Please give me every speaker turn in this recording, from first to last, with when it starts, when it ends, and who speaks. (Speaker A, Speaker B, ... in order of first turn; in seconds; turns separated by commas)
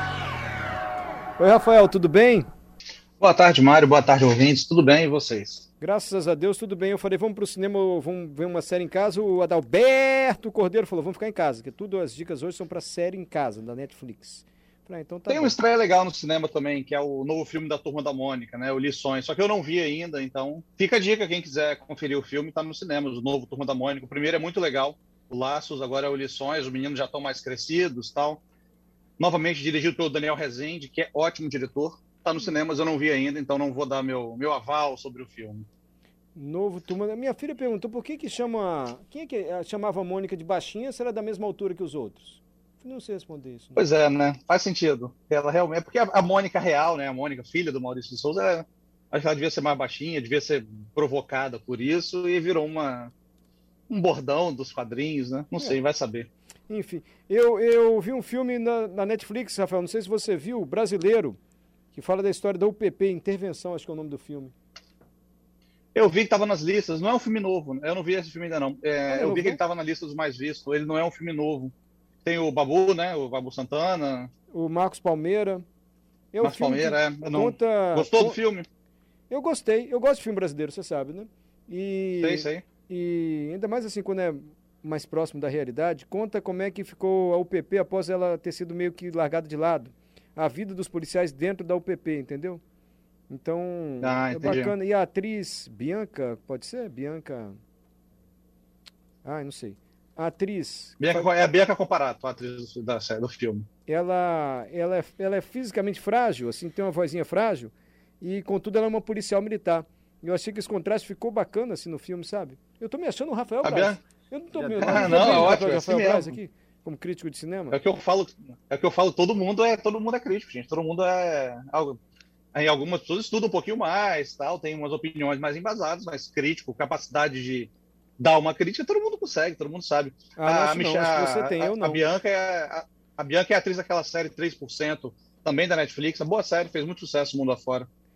Speaker A: 1.4-2.5, Speaker B: 3.2-5.7, Speaker A: 5.8-15.6, Speaker B: 15.3-28.4, Speaker B: 29.2-35.6, Speaker A: 36.3-43.8, Speaker B: 43.8-53.1, Speaker B: 53.9-56.3, Speaker A: 56.7-61.4, Speaker A: 61.9-64.5, Speaker B: 65.9-71.7, Speaker A: 69.1-69.6, Speaker B: 72.2-74.3, Speaker A: 74.5-75.6, Speaker A: 76.3-78.4, Speaker B: 76.4-78.7, Speaker A: 79.3-92.6, Speaker B: 82.2-82.6, Speaker A: 93.3-97.6, Speaker B: 94.0-94.7, Speaker A: 99.2-101.3, Speaker B: 101.0-103.7, Speaker A: 103.9-117.8, Speaker B: 113.6-114.0, Speaker B: 114.7-116.3, Speaker B: 117.7-122.0, Speaker B: 122.5-137.9, Speaker A: 130.3-132.1